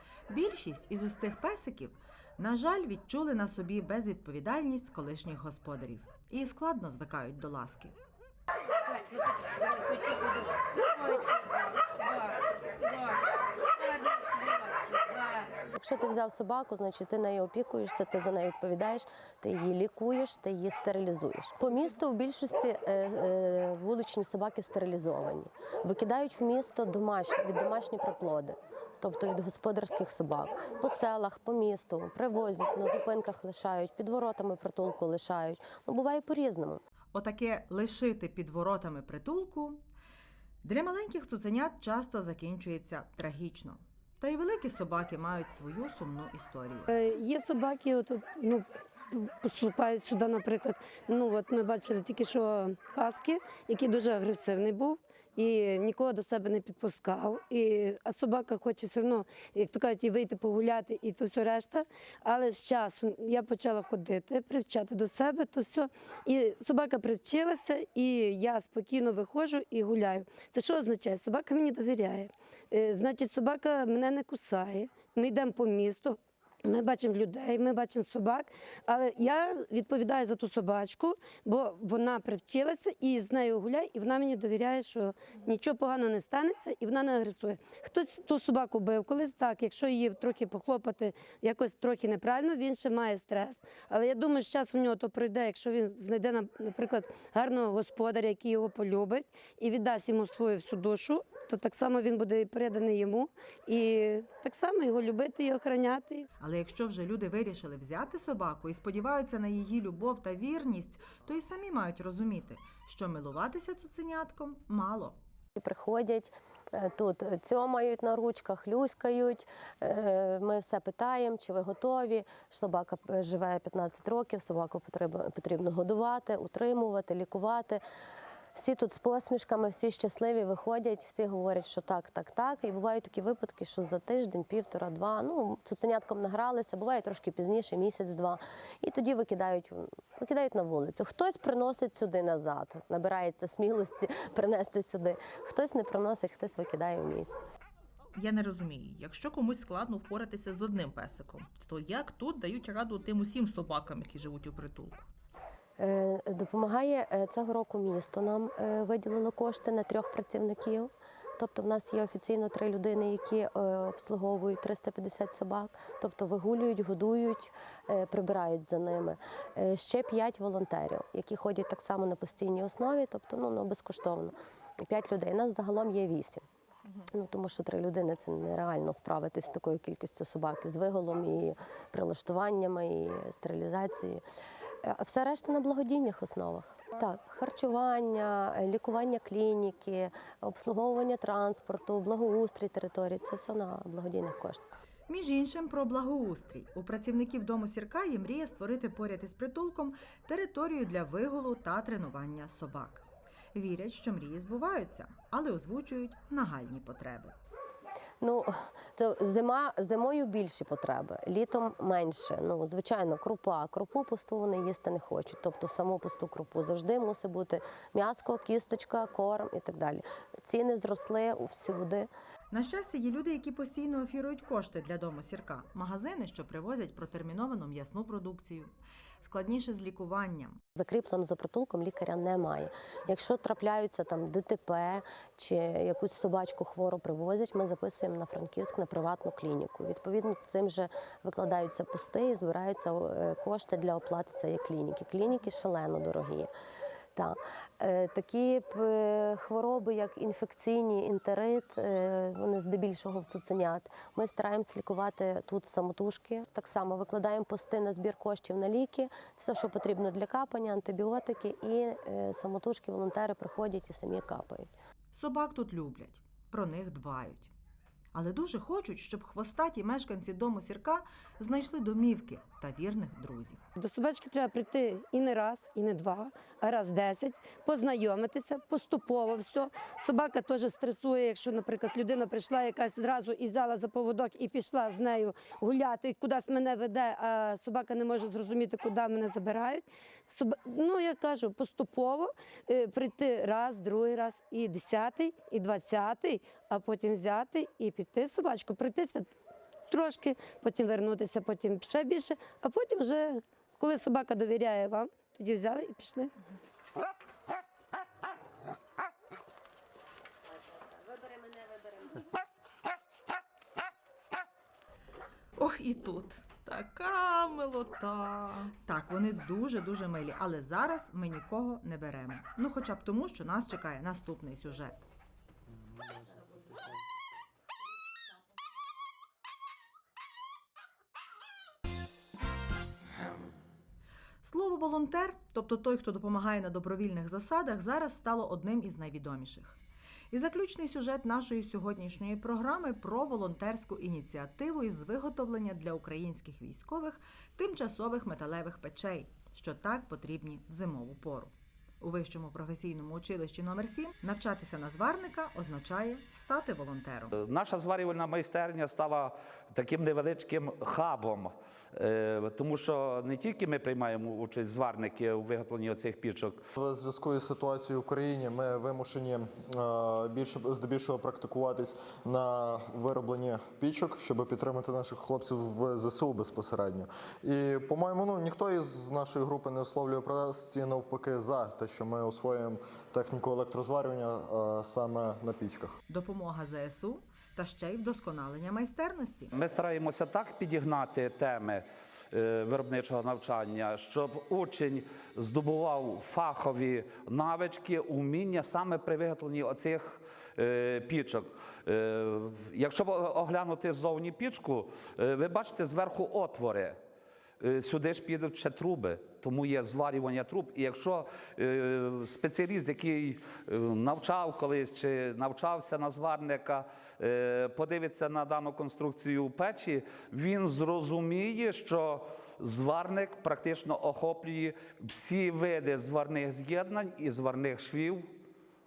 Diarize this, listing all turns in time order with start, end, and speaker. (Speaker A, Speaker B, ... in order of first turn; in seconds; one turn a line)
Speaker A: 0.3-8.0
Speaker B: 15.7-36.8
Speaker A: 37.1-39.8
Speaker A: 40.6-46.9
Speaker C: 46.9-106.3
Speaker A: 106.4-115.2
Speaker B: 115.6-127.8
Speaker B: 128.5-147.4
Speaker D: 148.2-155.1
Speaker B: 155.8-176.4
Speaker B: 177.1-184.2
Speaker B: 184.8-194.7
Speaker A: 195.1-207.3
Speaker B: 208.2-222.1
Speaker A: 222.5-230.6
Speaker B: 230.8-246.5
Speaker B: 247.2-264.7
Speaker A: 265.1-267.5
Speaker A: 268.1-273.6
Speaker C: 273.8-299.3
Speaker C: 299.9-306.3
Speaker D: 315.6-318.7
Speaker A: 318.9-325.0
Speaker A: 334.4-339.8
Speaker A: 340.3-357.4
Speaker E: 357.3-366.6
Speaker F: 366.8-386.0
Speaker A: 386.1-389.5
Speaker E: 389.5-407.0
Speaker E: 407.6-428.3